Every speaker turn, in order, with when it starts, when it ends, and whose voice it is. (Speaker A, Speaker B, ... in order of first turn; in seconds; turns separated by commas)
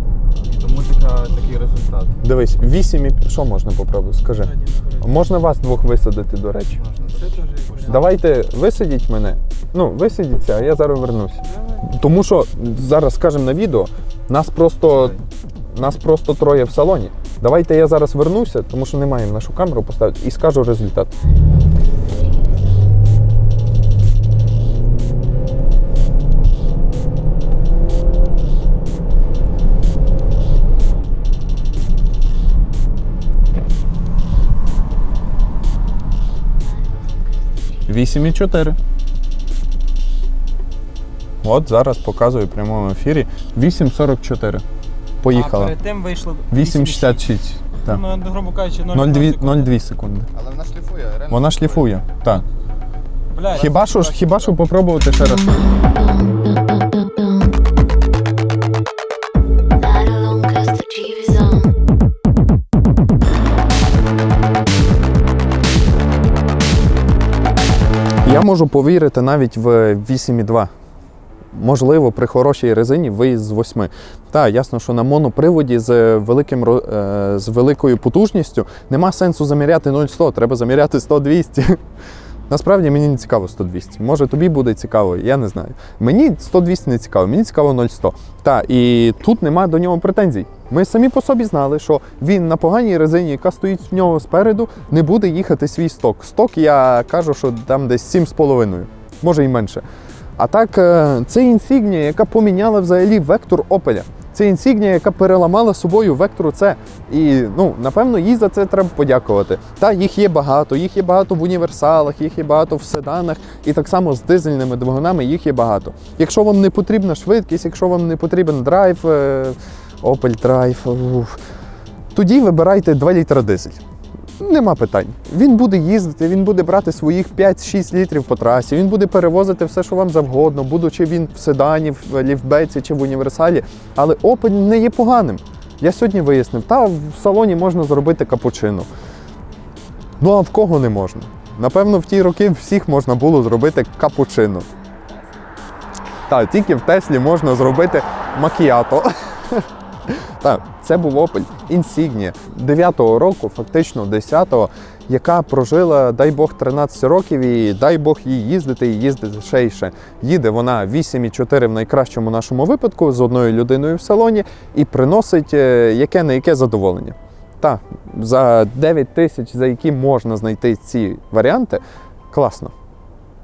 Speaker A: 0.4-2.2, Speaker B: 2.2-6.8, Speaker C: 4.5-5.0, Speaker A: 6.7-8.2, Speaker C: 7.1-8.1, Speaker B: 7.8-15.2, Speaker C: 11.6-11.8, Speaker A: 14.9-15.2, Speaker B: 15.7-21.1, Speaker B: 37.9-38.8, Speaker B: 41.4-44.6, Speaker B: 45.2-45.8, Speaker C: 45.3-47.3, Speaker B: 46.5-48.0, Speaker C: 47.8-49.7, Speaker B: 48.9-50.3, Speaker A: 50.3-51.9, Speaker B: 51.3-52.5, Speaker C: 53.3-54.6, Speaker B: 53.5-55.8, Speaker D: 56.0-57.5, Speaker D: 59.8-61.7, Speaker B: 68.2-70.7, Speaker B: 71.5-81.8, Speaker B: 82.5-99.8, Speaker B: 100.4-121.4, Speaker B: 122.1-123.8, Speaker B: 124.4-138.9, Speaker B: 140.2-144.7, Speaker B: 146.3-172.7